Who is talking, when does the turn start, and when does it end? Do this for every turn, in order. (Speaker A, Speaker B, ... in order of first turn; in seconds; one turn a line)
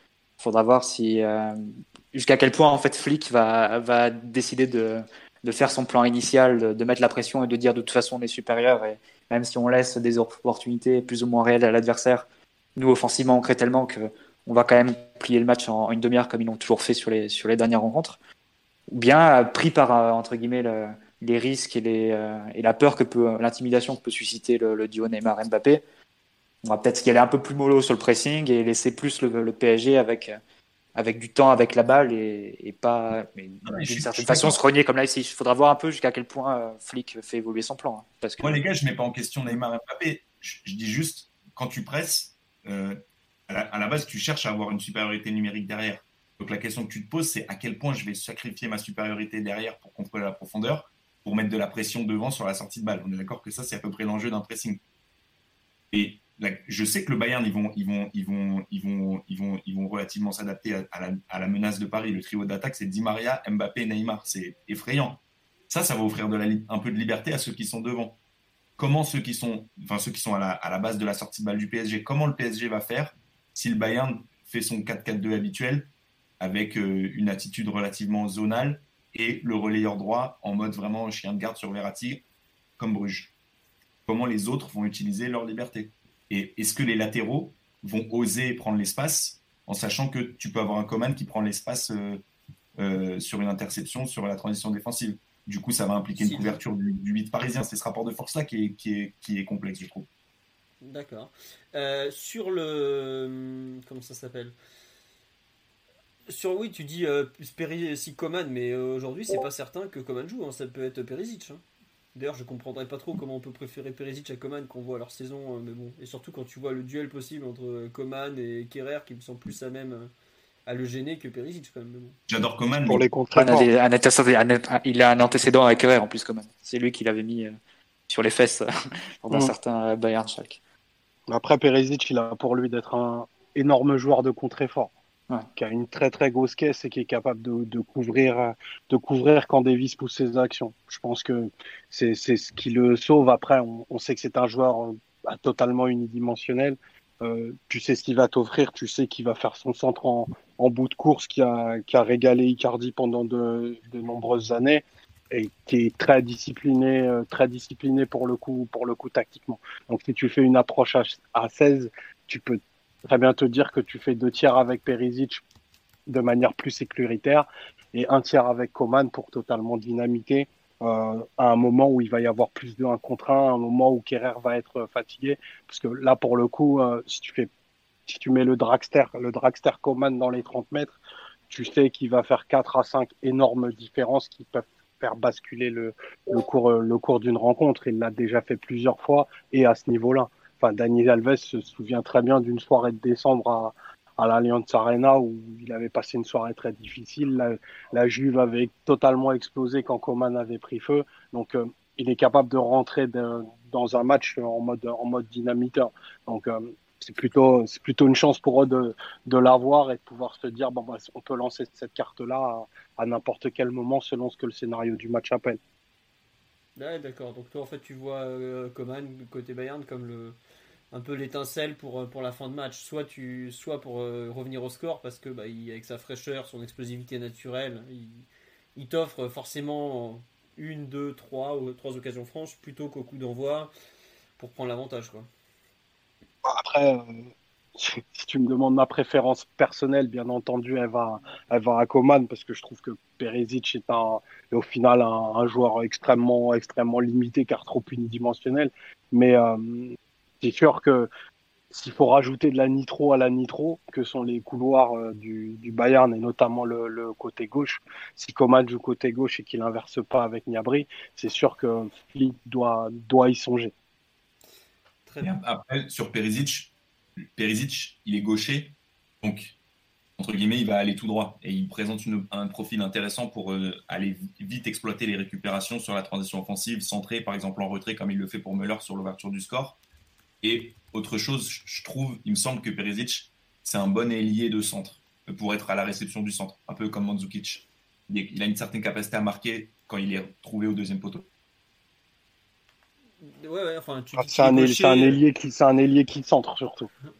Speaker A: 0.4-18.2
Speaker A: 18.9-25.8
Speaker A: 26.6-30.4
Speaker A: 30.9-38.6
Speaker B: 33.6-34.6
Speaker B: 38.4-54.8
Speaker B: 55.9-68.2
Speaker B: 68.8-75.9
Speaker B: 76.4-82.2
Speaker B: 82.8-83.3
Speaker B: 84.0-92.2
Speaker B: 92.8-100.1
Speaker C: 96.2-96.6
Speaker C: 100.8-104.5
Speaker C: 106.3-111.6
Speaker C: 112.1-120.1
Speaker C: 120.7-122.2
Speaker B: 122.3-123.0
Speaker D: 122.8-123.7
Speaker A: 123.3-127.5
Speaker A: 128.1-130.6
Speaker D: 131.3-134.9
Speaker D: 135.6-165.4
Speaker D: 166.1-177.5
Speaker D: 178.1-181.0
Speaker D: 181.5-215.6
Speaker C: 216.8-220.4
Speaker C: 220.9-228.2
Speaker C: 228.8-233.7
Speaker C: 234.4-235.3
Speaker D: 236.4-251.1
Speaker D: 251.7-263.7
Speaker C: 265.1-265.3
Speaker B: 265.2-266.7
Speaker B: 267.3-269.5
Speaker B: 270.2-279.8
Speaker B: 280.4-291.2
Speaker C: 293.2-295.2
Speaker D: 294.2-296.9